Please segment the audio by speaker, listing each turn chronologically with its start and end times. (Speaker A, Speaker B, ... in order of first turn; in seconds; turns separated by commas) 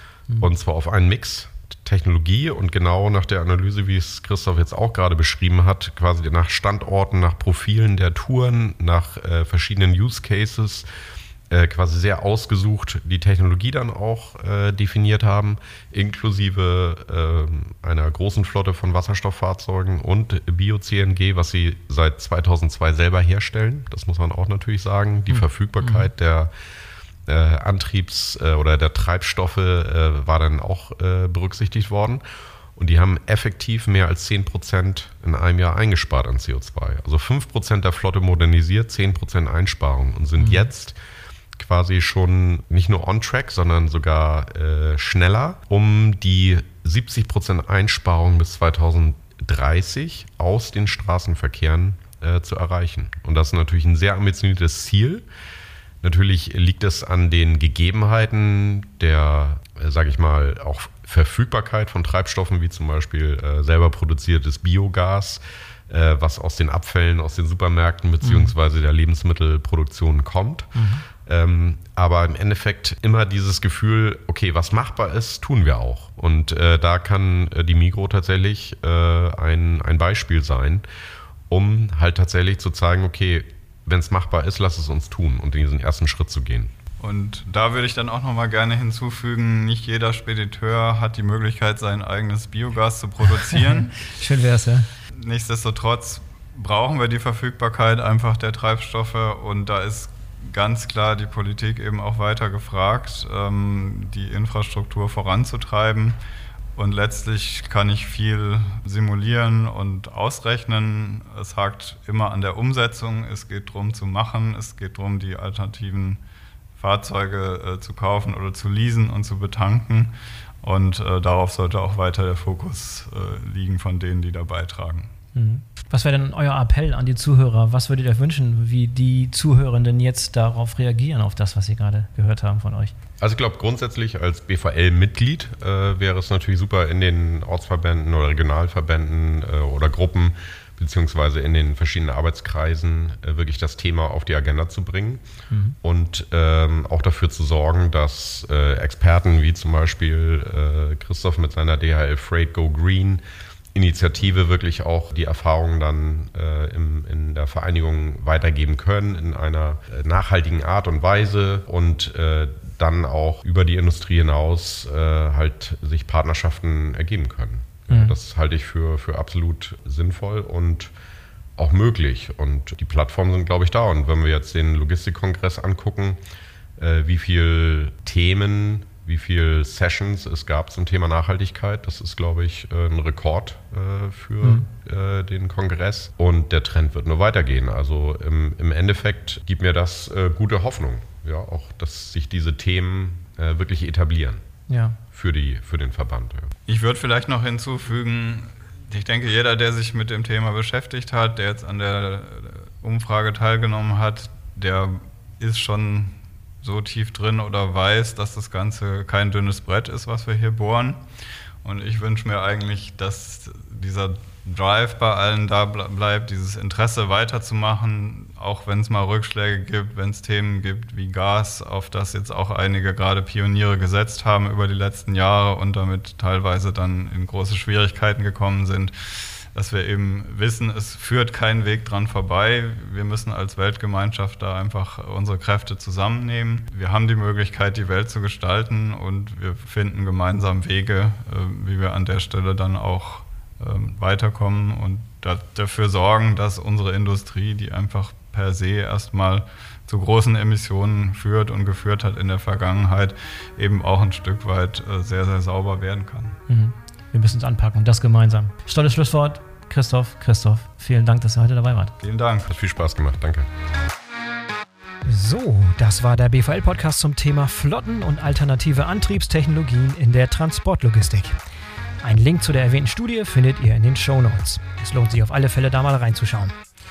Speaker A: 0.4-10.8, Speaker A: 11.5-26.5, Speaker B: 25.3-26.1, Speaker A: 27.2-32.2, Speaker A: 32.7-41.0, Speaker B: 40.4-40.7, Speaker A: 41.5-55.2, Speaker A: 56.0-80.8, Speaker B: 68.2-68.5, Speaker B: 70.7-71.0, Speaker A: 81.5-86.7, Speaker C: 87.0-94.0, Speaker B: 93.5-94.9, Speaker C: 95.1-106.2, Speaker C: 106.8-116.2, Speaker C: 116.8-125.1, Speaker B: 125.3-132.9, Speaker A: 133.2-145.2, Speaker B: 145.5-145.8, Speaker A: 145.8-153.2, Speaker A: 153.7-170.9, Speaker B: 167.9-168.1, Speaker A: 171.6-176.2, Speaker A: 176.8-194.4, Speaker B: 194.7-195.0, Speaker A: 195.1-196.5, Speaker C: 196.7-211.0, Speaker C: 211.6-256.4, Speaker B: 256.5-261.9, Speaker C: 262.0-262.6, Speaker A: 262.5-263.5, Speaker B: 265.0-271.4, Speaker B: 272.0-276.6